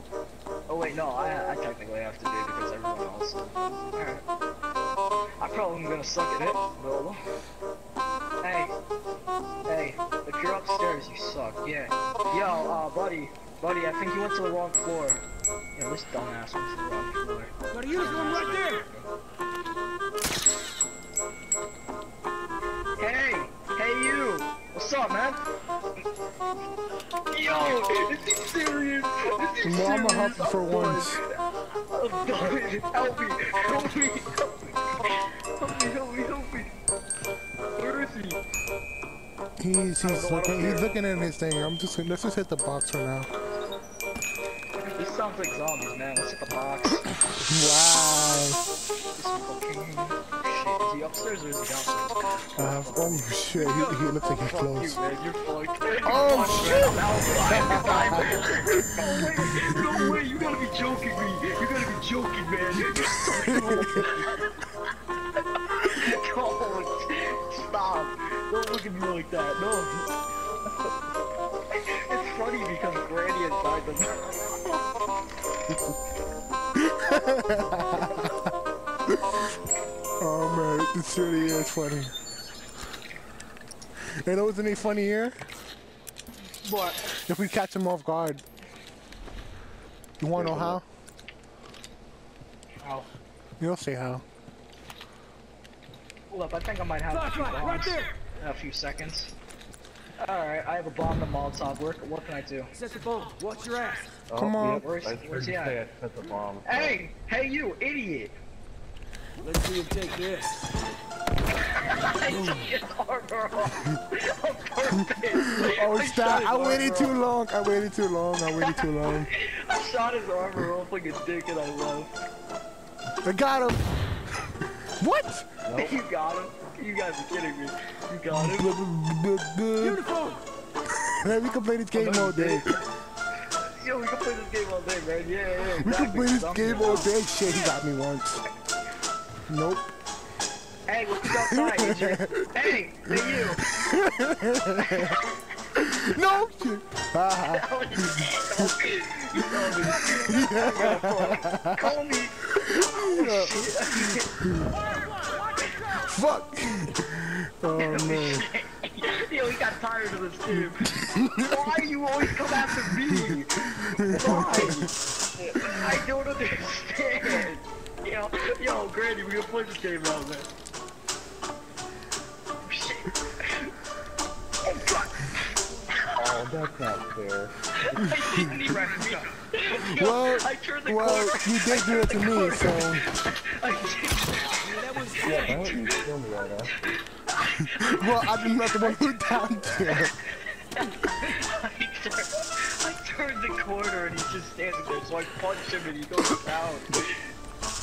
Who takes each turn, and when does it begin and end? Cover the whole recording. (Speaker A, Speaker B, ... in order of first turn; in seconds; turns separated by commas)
Speaker A: 0.7-4.2, Speaker A: 5.4-7.2, Speaker A: 8.4-8.7, Speaker A: 9.7-15.2, Speaker A: 15.8-19.1, Speaker A: 23.0-25.4, Speaker A: 27.3-36.7, Speaker B: 29.6-31.2, Speaker A: 37.8-38.4, Speaker B: 39.6-43.3, Speaker A: 40.0-40.9, Speaker A: 44.8-47.0, Speaker B: 47.3-48.6, Speaker A: 49.1-64.4, Speaker B: 52.6-55.0, Speaker B: 56.0-60.2, Speaker B: 62.9-64.3, Speaker A: 65.6-70.1, Speaker A: 71.8-74.8, Speaker B: 76.8-78.5, Speaker B: 79.1-79.4, Speaker B: 80.2-82.1, Speaker B: 84.2-85.4, Speaker A: 86.6-87.0, Speaker B: 87.2-88.4, Speaker B: 90.2-90.8, Speaker C: 90.4-90.8, Speaker A: 92.8-93.1, Speaker B: 93.6-94.2, Speaker A: 96.3-99.3, Speaker A: 100.2-102.7, Speaker D: 103.0-104.0, Speaker C: 104.3-107.0, Speaker B: 104.4-104.9, Speaker A: 104.5-105.8, Speaker A: 106.6-108.3, Speaker D: 109.5-110.5, Speaker A: 111.5-117.2, Speaker B: 115.3-119.3, Speaker A: 118.6-122.1, Speaker B: 123.2-123.9, Speaker B: 124.8-125.5, Speaker C: 125.7-126.0, Speaker A: 125.7-128.8, Speaker B: 128.3-130.1, Speaker B: 131.0-132.8, Speaker A: 131.9-132.8, Speaker A: 133.5-137.1, Speaker B: 135.8-138.4, Speaker B: 139.5-139.9, Speaker A: 140.9-143.7, Speaker B: 141.5-145.2, Speaker A: 144.8-145.4, Speaker B: 145.7-148.7, Speaker A: 147.4-154.3, Speaker B: 149.4-151.8, Speaker B: 152.6-154.8, Speaker B: 155.8-158.5, Speaker A: 157.8-170.5, Speaker B: 160.5-161.5, Speaker B: 162.5-164.9, Speaker A: 172.6-173.7, Speaker A: 174.7-176.2, Speaker C: 176.2-178.2, Speaker A: 177.8-186.1, Speaker B: 179.8-183.1, Speaker D: 184.8-185.4, Speaker C: 185.2-186.7, Speaker A: 186.8-197.2, Speaker B: 187.8-190.1